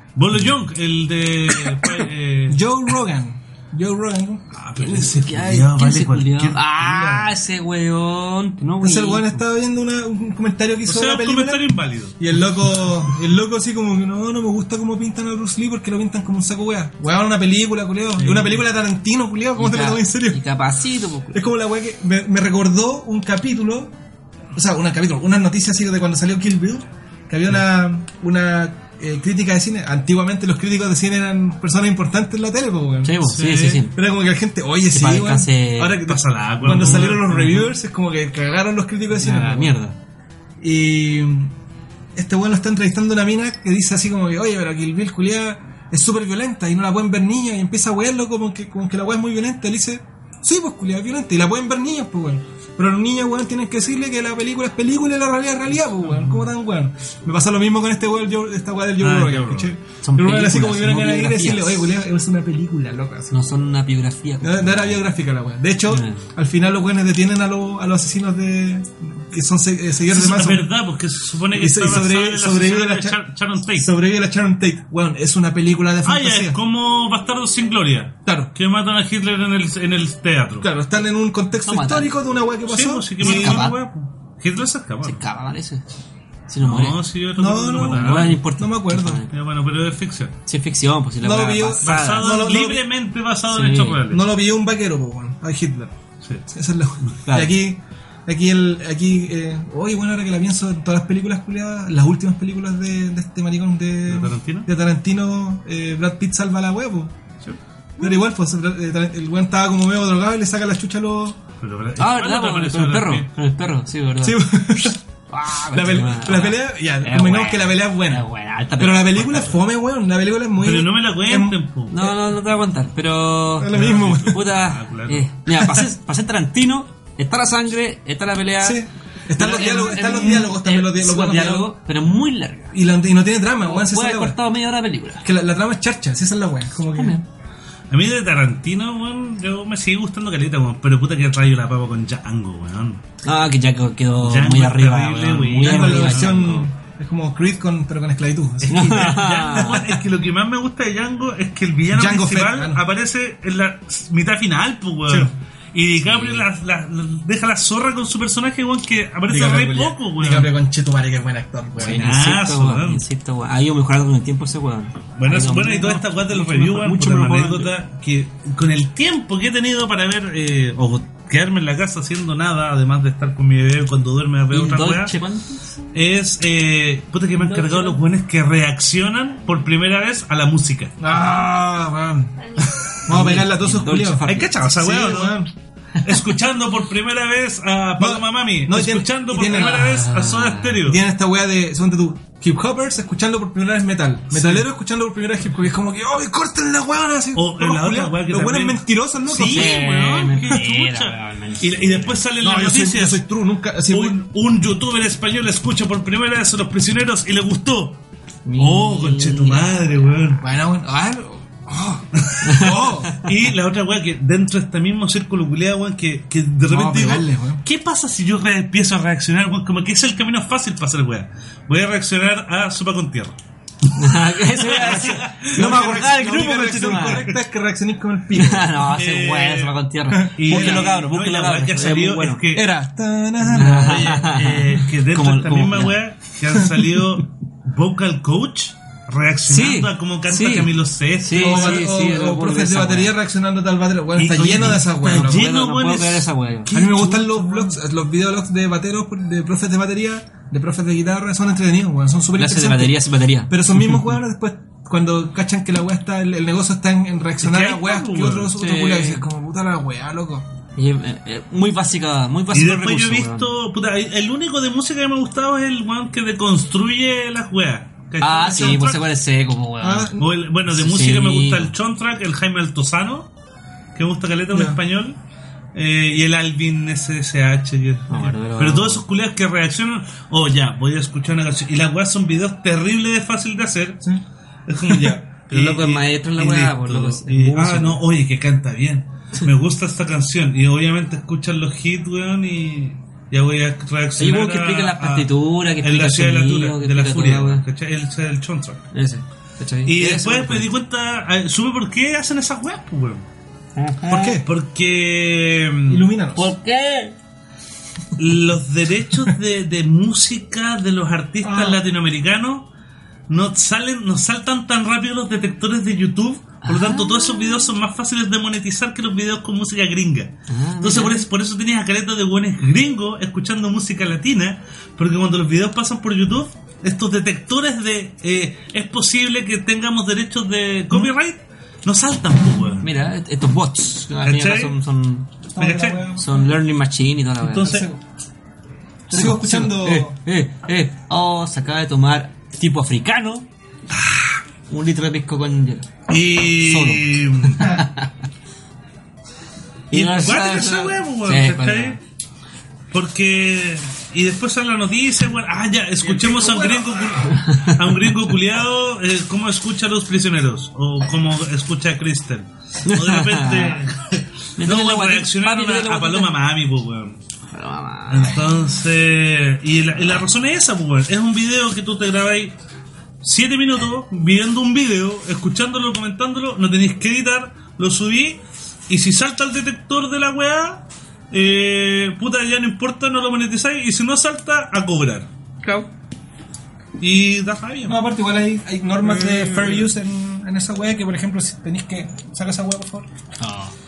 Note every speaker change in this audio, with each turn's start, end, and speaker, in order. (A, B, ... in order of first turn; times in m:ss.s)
0:00.2-0:02.6 A
0:02.5-0:04.4 B
0:04.5-0:07.3 A
0:04.8-0:09.4 C
0:08.8-0:11.7 B
0:10.9-0:12.2 A
0:12.2-0:20.4 B
0:18.2-0:18.6 A
0:19.6-0:21.4 C
0:21.3-0:23.9 B
0:24.6-0:33.2 B
0:33.0-0:33.9 C
0:33.2-0:33.8 A
0:33.9-0:39.8 B
0:34.9-0:36.0 C
0:36.0-0:37.7 A
0:39.1-0:40.0 C
0:40.6-0:41.5 B
0:42.2-1:03.3 B
0:56.1-0:56.4 A
0:59.0-0:59.7 A
1:00.0-1:01.9 C
1:03.3-1:05.0 C
1:04.4-1:10.7 B
1:05.9-1:06.2 C
1:10.1-1:13.9 A
1:11.6-1:13.2 B
1:13.8-1:16.6 B
1:16.0-1:20.7 A
1:18.3-1:18.5 B
1:20.6-1:23.7 B
1:21.6-1:22.2 C
1:22.7-1:25.2 A
1:23.2-1:23.8 C
1:25.0-1:25.8 C
1:26.5-1:27.0 C
1:26.6-1:28.4 A
1:27.4-1:29.2 B
1:27.8-1:29.3 C
1:29.3-1:30.4 A
1:30.5-1:32.4 C
1:31.2-1:32.8 B
1:31.8-1:34.2 A
1:33.5-1:34.0 C
1:34.1-1:35.9 B
1:36.5-1:47.1 B
1:37.3-1:37.5 C
1:44.1-1:44.7 A
1:48.0-1:51.4 B
1:51.6-1:53.3 A
1:52.0-1:54.5 C
1:54.2-1:55.0 B
1:55.3-1:59.6 C
1:55.7-1:58.3 B
1:58.8-2:01.6 B
2:00.6-2:02.1 A
2:01.9-2:12.8 C
2:03.6-2:04.4 B
2:03.7-2:05.3 A
2:08.6-2:11.7 B
2:12.7-2:14.4 B
2:13.6-2:15.3 C
2:15.2-2:17.2 B
2:17.0-2:17.2 C
2:17.9-2:23.0 A
2:23.2-2:26.7 C
2:24.2-2:26.6 A
2:25.6-2:29.3 B
2:28.6-2:40.5 A
2:28.7-2:29.9 C
2:31.9-2:32.8 B
2:35.1-2:35.3 B
2:36.0-2:36.5 C
2:39.3-2:42.2 B
2:41.8-2:47.7 C
2:41.8-2:43.0 A
2:45.2-2:55.2 A
2:54.5-2:55.9 C
2:55.9-3:01.0 A
2:57.4-2:58.0 C
3:01.0-3:05.5 B
3:03.1-3:04.7 C
3:04.3-3:05.4 A
3:06.0-3:11.0 A
3:08.0-3:10.0 B
3:09.5-3:10.8 C
3:10.8-3:19.8 B
3:14.3-3:14.6 A
3:17.4-3:23.2 A
3:19.5-3:22.2 C
3:22.4-3:24.2 B
3:23.9-3:28.0 A
3:28.5-3:30.1 C
3:28.6-3:30.4 A
3:30.4-3:33.2 B
3:32.2-3:43.4 A
3:32.4-3:32.7 C
3:36.7-3:37.6 B
3:44.0-3:47.3 C
3:44.5-3:45.7 A
3:45.4-3:48.7 B
3:48.3-3:52.7 C
3:48.9-3:49.8 A
3:50.1-3:50.9 B
3:50.4-3:52.7 A
3:52.5-3:54.1 B
3:53.5-4:01.9 A
3:53.5-3:56.0 C
3:59.5-4:03.2 C
4:01.4-4:05.4 B
4:04.2-4:07.6 A
4:04.6-4:07.5 C
4:06.7-4:20.5 B
4:12.4-4:13.5 C
4:17.4-4:18.6 A
4:18.6-4:19.2 C
4:20.8-4:23.5 C
4:22.5-4:29.0 A
4:28.2-4:30.2 C
4:28.4-4:28.8 B
4:29.8-4:30.3 B
4:30.2-4:33.3 A
4:30.7-4:31.7 C
4:34.0-4:35.2 A
4:34.5-4:34.8 B
4:35.8-4:44.0 A
4:38.1-4:39.0 C
4:44.7-4:58.9 A
4:44.9-4:45.2 B
4:45.5-4:48.0 C
4:54.2-4:57.6 C
4:58.9-5:00.7 C
4:59.8-5:03.2 A
5:03.8-5:04.4 C
5:04.1-5:04.5 B
5:04.3-5:06.1 A
5:05.9-5:06.5 B
5:06.4-5:07.2 C
5:08.2-5:12.7 A
5:11.4-5:11.8 B
5:13.3-5:32.9 A
5:16.6-5:17.7 C
5:20.5-5:21.3 C
5:32.8-5:35.3 C
5:34.2-5:34.8 A
5:35.5-5:36.6 B
5:35.6-5:36.0 A
5:36.2-5:37.8 C
5:37.4-5:37.9 A
5:37.6-5:38.0 B
5:39.1-5:40.2 B
5:39.1-5:43.5 C
5:44.7-5:45.9 C
5:46.1-5:47.8 A
5:46.6-5:48.1 C
5:49.9-5:52.0 C
5:49.9-5:52.0 A
5:52.9-6:07.2 A
5:56.0-5:57.2 B
5:57.3-5:57.8 C
6:02.8-6:03.8 C
6:04.6-6:06.3 C
6:07.5-6:08.5 C
6:08.1-6:12.5 A
6:13.2-6:25.3 A
6:27.0-6:28.0 A
6:27.9-6:33.1 B
6:29.2-6:29.8 A
6:33.4-6:33.7 C